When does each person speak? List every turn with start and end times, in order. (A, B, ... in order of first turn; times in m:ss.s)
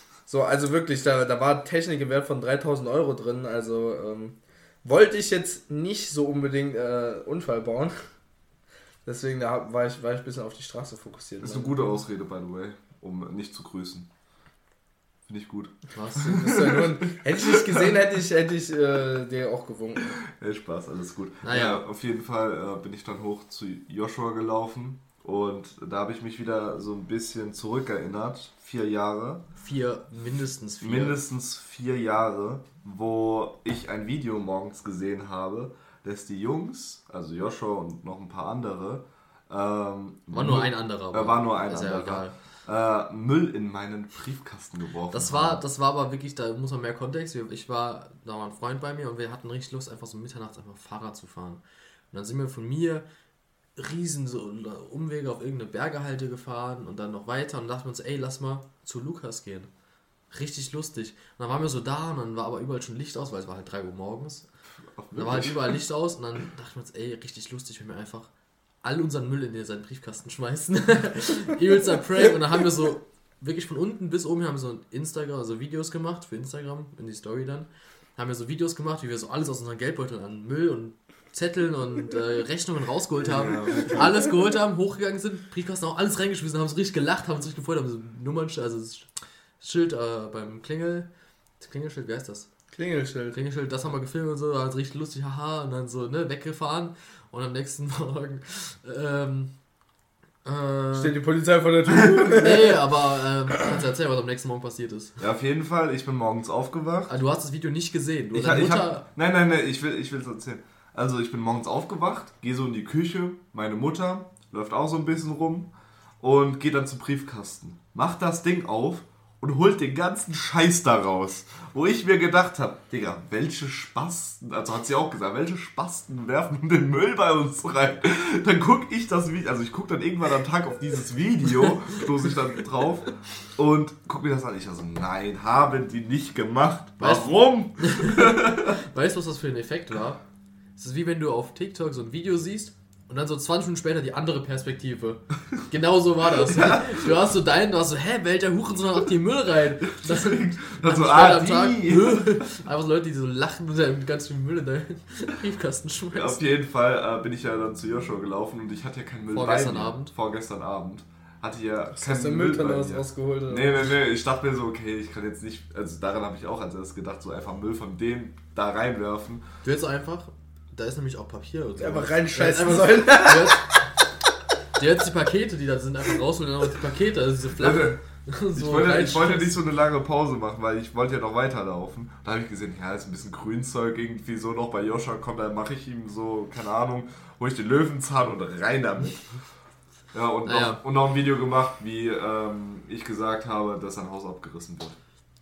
0:00.3-0:08.0 A
0:09.1-0:11.8 A
0:11.4-0:14.1 B
0:15.3-0:17.9 B
0:15.9-0:16.6 C
0:16.3-0:20.2 A
0:20.3-0:29.4 B
0:21.4-0:21.8 C
0:29.6-0:31.2 C
0:30.8-0:45.6 B
0:40.3-0:42.4 C
0:45.1-0:53.0 C
0:53.8-0:59.7 C
1:00.3-1:04.5 C
1:05.0-1:05.8 B
1:05.2-1:08.3 C
1:08.8-1:31.1 C
1:23.2-1:24.2 B
1:31.6-1:32.5 C
1:32.7-1:33.4 A
1:33.3-1:39.5 C
1:40.4-1:41.1 C
1:40.9-1:42.9 A
1:42.0-1:42.3 B
1:42.3-1:45.2 C
1:45.2-1:47.1 B
1:47.1-1:49.1 C
1:48.3-2:18.8 B
2:17.0-2:20.2 C
2:20.8-2:36.4 C
2:26.4-2:27.1 B
2:29.9-2:32.5 B
2:36.1-2:49.4 B
2:39.3-2:40.1 C
2:42.0-2:43.9 A
2:49.6-2:53.8 C
2:51.8-2:53.9 A
2:54.8-2:59.6 C
2:57.6-2:58.0 B
2:58.6-3:09.2 B
3:10.1-3:15.0 B
3:10.4-3:10.8 C